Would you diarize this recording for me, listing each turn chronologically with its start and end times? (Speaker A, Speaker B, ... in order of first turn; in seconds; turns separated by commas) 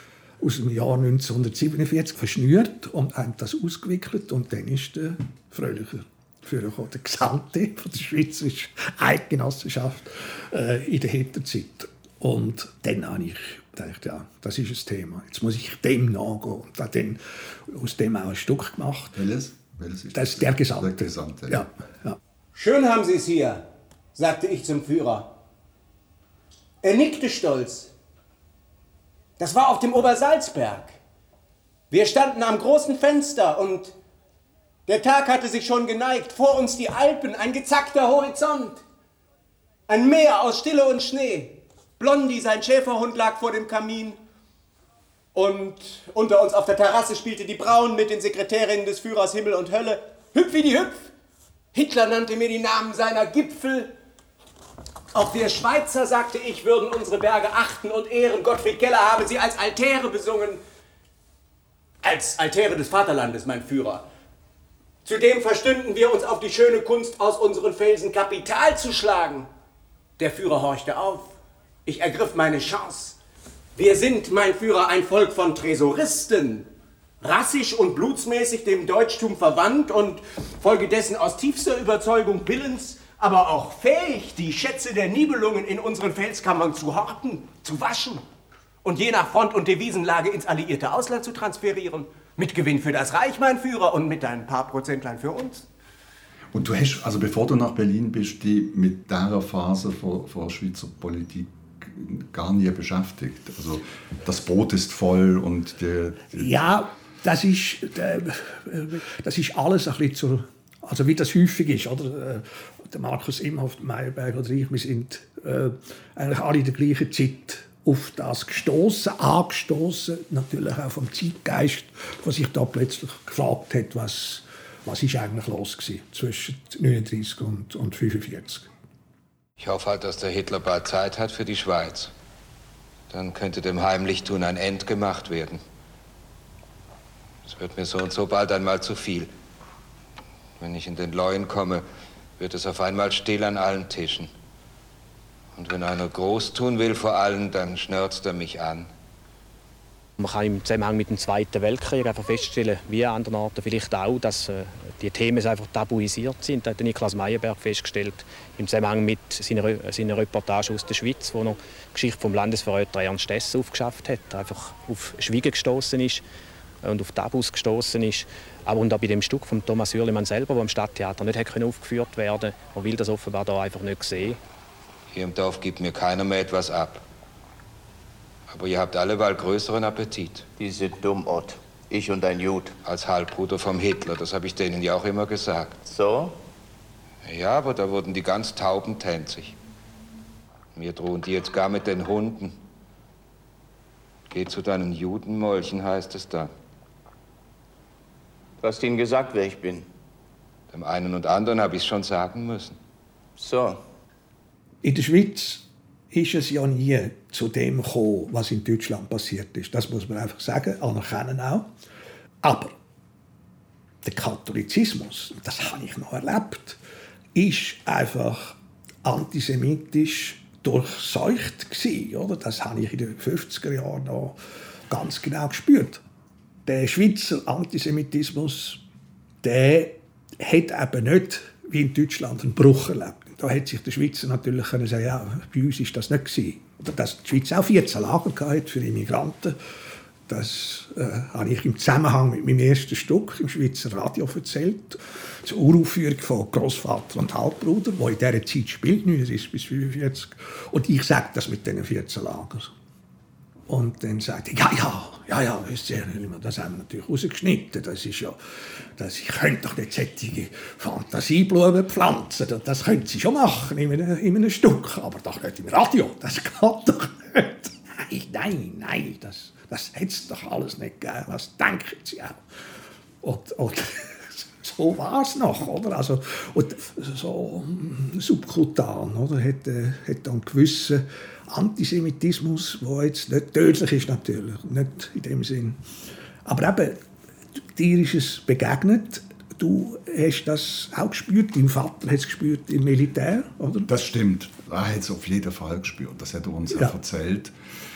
Speaker A: 0.4-19.2, Speaker B: 19.1-21.7, Speaker A: 20.1-22.2, Speaker C: 22.6-23.6, Speaker C: 24.1-25.3, Speaker C: 26.8-27.9, Speaker C: 29.4-31.0, Speaker C: 31.9-33.9, Speaker C: 34.9-38.8, Speaker C: 39.9-44.2, Speaker C: 45.3-51.1, Speaker C: 51.7-53.9, Speaker C: 55.1-60.6, Speaker C: 62.0-64.0, Speaker C: 65.0-69.5, Speaker C: 70.2-71.3, Speaker C: 71.9-73.2, Speaker C: 73.8-76.7, Speaker C: 77.2-88.2, Speaker C: 88.8-95.7, Speaker B: 96.5-106.5, Speaker A: 106.4-128.7, Speaker D: 129.6-132.1, Speaker D: 133.1-135.6, Speaker D: 137.5-139.3, Speaker D: 140.6-141.8, Speaker D: 142.4-144.3, Speaker D: 145.6-148.9, Speaker E: 150.2-166.2, Speaker E: 166.8-174.4, Speaker D: 175.1-177.0, Speaker D: 178.5-180.5, Speaker F: 180.6-182.8, Speaker D: 182.8-185.9, Speaker F: 185.9-186.4, Speaker D: 187.2-189.6, Speaker D: 190.8-192.6, Speaker D: 194.3-196.5, Speaker F: 198.6-199.9, Speaker D: 200.7-202.8, Speaker F: 203.4-203.8, Speaker A: 204.8-211.7, Speaker A: 212.4-212.7, Speaker A: 214.0-216.8, Speaker A: 217.3-224.4, Speaker A: 224.9-226.0, Speaker A: 226.7-228.8, Speaker A: 229.4-239.6, Speaker A: 240.3-252.7, Speaker A: 253.7-258.4, Speaker A: 259.0-272.4, Speaker A: 273.2-285.8, Speaker A: 286.5-287.0, Speaker A: 287.8-293.9, Speaker B: 293.9-297.5